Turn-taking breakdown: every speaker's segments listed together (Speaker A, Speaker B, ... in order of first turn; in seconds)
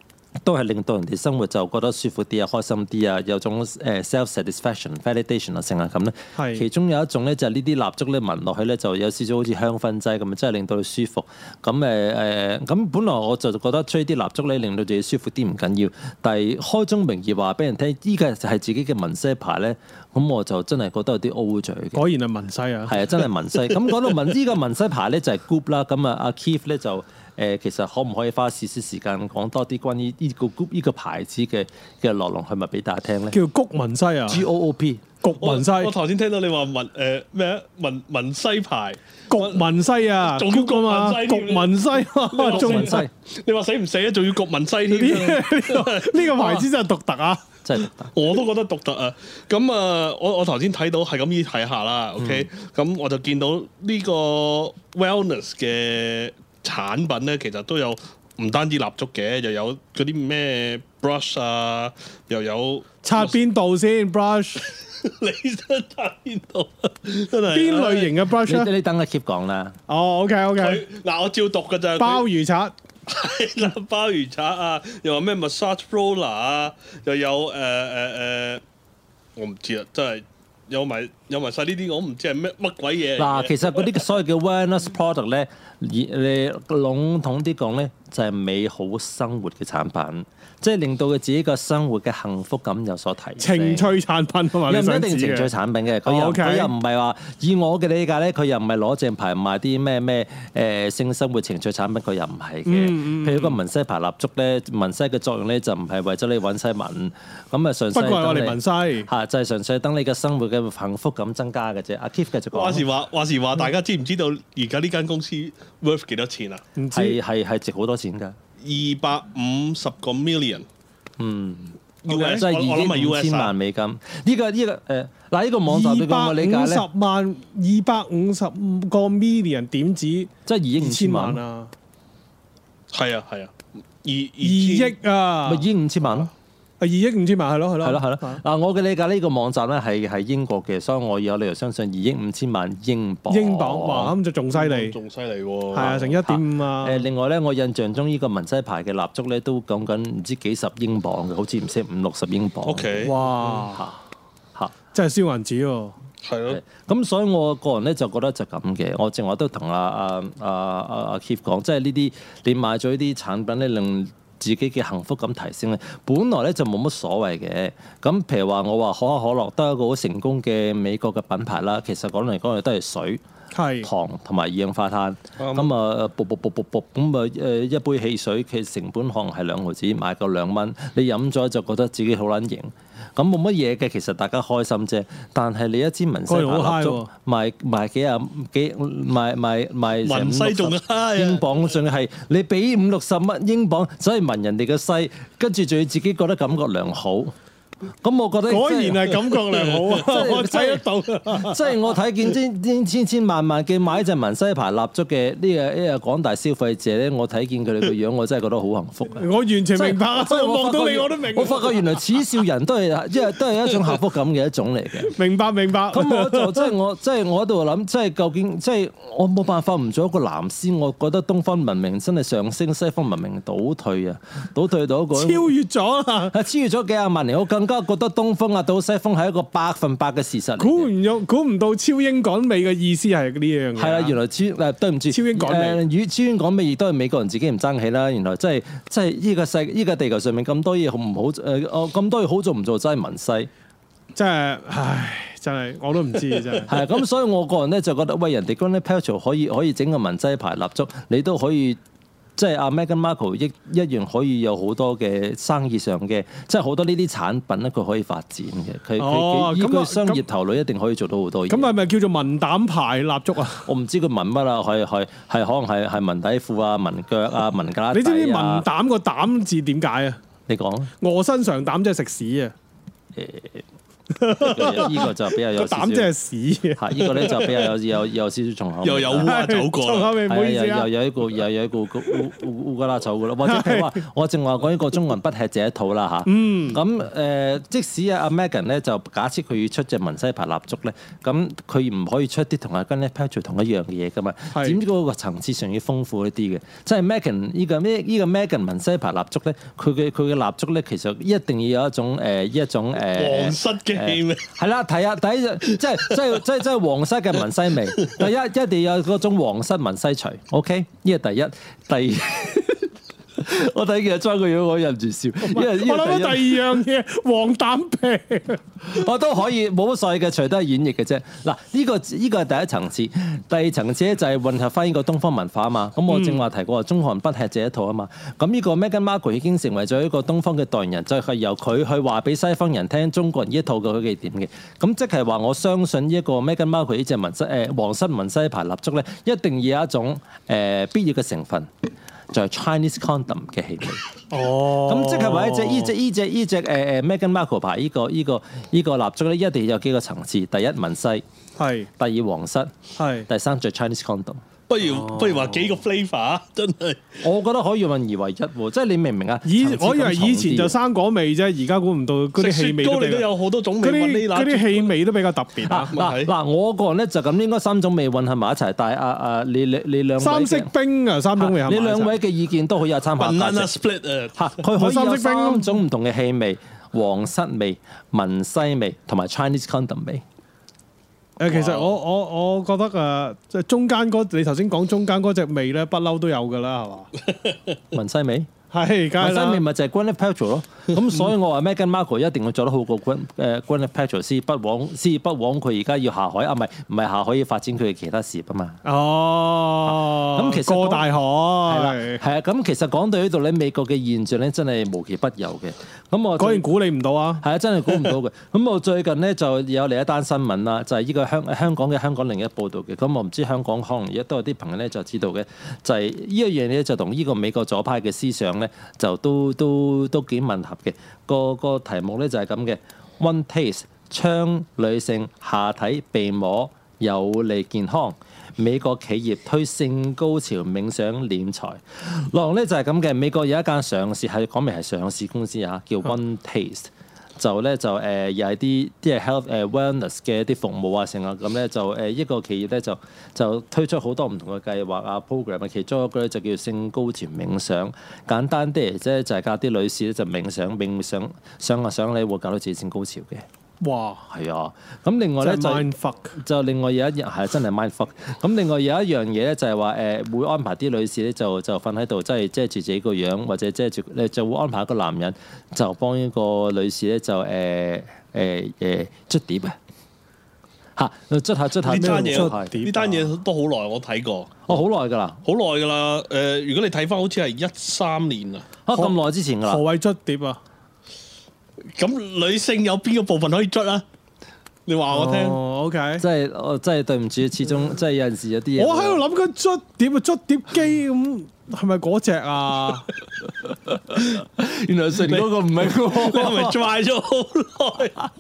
Speaker A: 0.4-22.0, 22.9-33.4, 34.3-35.0, 42.5-43.1, 47.6-48.1, 52.2-52.5, 68.4-69.8, 83.2-93.9, 94.7-112.8, 116.9-118.3, 121.2-126.9, 130.5-131.4, 135.4-136.3, 137.8-144.2, 145.8-153.1, 153.7-154.0, 156.5-173.2, 173.8-197.3, 198.0-215.1, 215.9-225.5, 226.3-230.9, 233.8-243.5, 246.7-251.8, 252.4-261.7, 263.7-268.7, 270.5-270.9, 273.2-273.6, 274.2-276.1, 276.8-279.4, 280.3-316.7, 318.8-341.7, 342.3-344.1, 344.9-351.2, 352.0-354.4, 357.2-360.8, 365.7-370.7, 371.4-373.8, 374.4-380.2, 387.9-388.5, 389.2-398.8, 399.9-401.1, 401.6-406.6, 407.4-453.4, 454.3-469.8, 471.0-472.8, 474.7-475.4, 478.9-479.8, 486.2-489.2, 494.1-496.8
Speaker B: 6.4-6.7, 21.9-23.0, 33.3-34.5, 35.2-36.0, 39.3-43.0, 44.9-47.4, 63.0-64.6, 67.5-68.7, 69.9-70.9, 72.0-72.7, 93.4-95.5, 96.0-96.7, 102.7-103.6, 107.9-109.1, 116.8-117.2, 122.1-122.4, 125.7-131.7, 134.4-135.7, 136.8-138.4, 143.3-145.0, 145.7-147.1, 153.1-153.8, 154.9-156.0, 173.5-173.9, 186.3-187.1, 198.5-201.8, 209.1-212.0, 215.0-216.7, 225.1-226.4, 230.6-234.2, 235.1-235.8, 244.2-246.8, 259.0-260.2, 261.5-263.7, 267.9-270.2, 271.0-272.6, 274.1-276.8, 279.2-280.9, 283.4-284.0, 286.3-286.8, 294.5-294.8, 315.4-318.6, 326.1-326.4, 344.3-345.9, 351.6-351.9, 353.0-353.3, 354.8-355.5, 359.4-363.3, 363.8-365.9, 370.2-372.1, 374.8-375.8, 381.4-387.1, 388.7-389.6, 398.8-402.2, 406.4-407.4, 453.8-454.3, 455.4-456.4, 472.0-473.3, 478.9-480.6, 485.1-486.2, 488.8-493.1
Speaker C: 35.4-39.7, 40.2-46.7, 48.1-63.3, 64.6-68.2, 70.6-72.3, 73.1-78.6, 79.4-84.0, 112.5-116.6, 118.6-120.7, 122.0-123.5, 132.9-135.0, 144.5-146.1, 152.7-153.2, 156.2-156.6, 190.0-191.5, 277.1-277.7, 278.8-280.2, 303.0-304.4, 354.7-357.2, 362.4-364.9, 365.9-366.3, 373.2-374.5, 381.5-381.9, 471.9-474.7, 475.4-478.7, 481.9-484.1, 484.9-485.6, 495.2-498.2